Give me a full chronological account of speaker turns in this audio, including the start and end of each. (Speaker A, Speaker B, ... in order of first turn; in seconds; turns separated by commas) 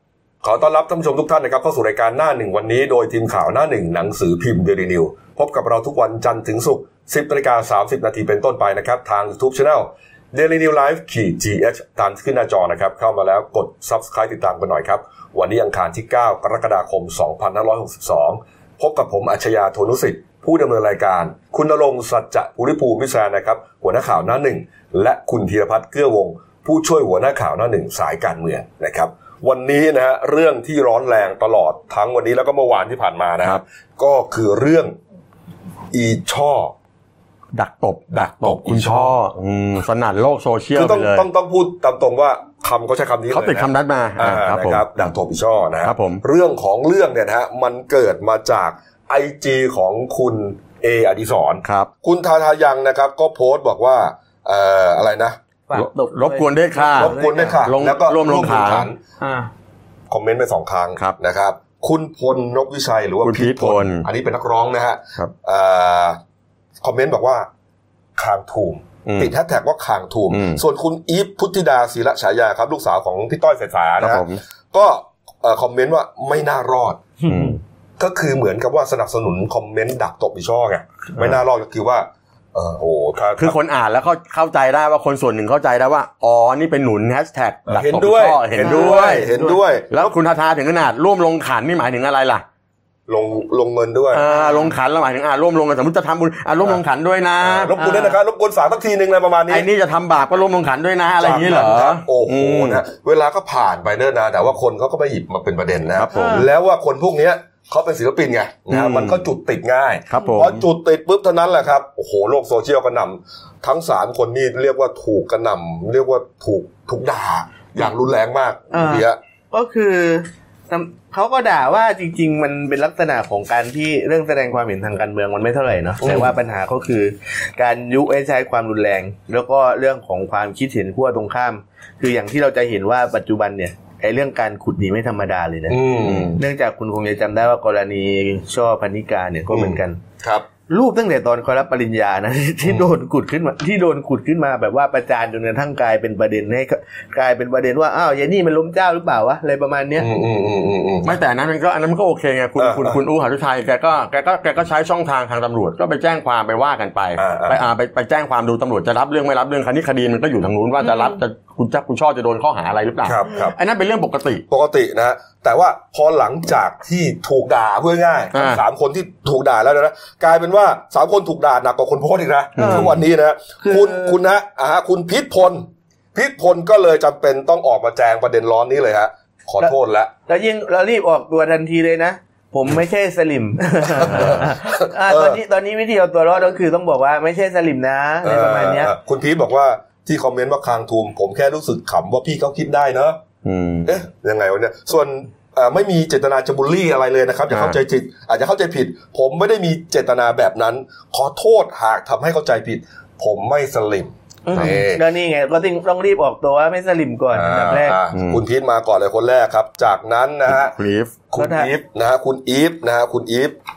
Speaker A: 0.4-35.0, Speaker A: 35.9-36.8, Speaker B: 37.5-41.3, Speaker A: 38.1-39.1, Speaker A: 40.7-55.4, Speaker B: 43.3-45.1, Speaker B: 45.8-46.2, Speaker B: 51.6-51.9, Speaker C: 55.7-57.6, Speaker B: 55.7-58.9, Speaker A: 57.0-59.0, Speaker C: 59.2-59.5, Speaker A: 60.1-66.2, Speaker B: 63.2-64.0, Speaker A: 66.8-67.5, Speaker A: 68.2-77.0, Speaker B: 69.1-69.3, Speaker B: 70.3-70.6, Speaker B: 74.0-74.4, Speaker C: 77.2-77.5, Speaker B: 77.3-77.6, Speaker A: 78.0-83.5, Speaker B: 83.4-89.3, Speaker A: 87.7-90.1, Speaker C: 88.6-89.6, Speaker B: 89.9-92.5, Speaker A: 93.1-94.2, Speaker B: 94.1-97.7, Speaker C: 94.3-94.6, Speaker A: 97.4-99.7, Speaker C: 97.8-98.2, Speaker B: 99.5-102.8, Speaker A: 101.2-119.2, Speaker B: 106.0-106.5, Speaker C: 106.1-106.5, Speaker B: 108.7-109.2, Speaker B: 110.1-110.7, Speaker C: 118.7-140.0, Speaker A: 126.0-126.3, Speaker A: 135.7-136.4, Speaker B: 136.0-136.4, Speaker A: 139.5-140.5, Speaker C: 140.7-150.1, Speaker A: 150.0-151.2, Speaker B: 151.0-164.4, Speaker A: 152.6-153.0, Speaker A: 157.2-157.6, Speaker C: 160.8-161.2, Speaker A: 163.1-163.5, Speaker A: 164.5-180.1, Speaker B: 168.3-168.6, Speaker B: 172.6-173.0, Speaker C: 172.6-173.0, Speaker C: 173.6-174.2, Speaker C: 180.3-188.9, Speaker A: 183.9-185.4, Speaker A: 188.2-193.2, Speaker B: 193.4-193.9, Speaker A: 193.8-205.0, Speaker B: 197.5-197.8, Speaker C: 204.5-208.0, Speaker A: 207.3-210.8, Speaker B: 208.1-208.4, Speaker B: 210.5-211.2, Speaker A: 211.3-213.6, Speaker C: 211.4-211.7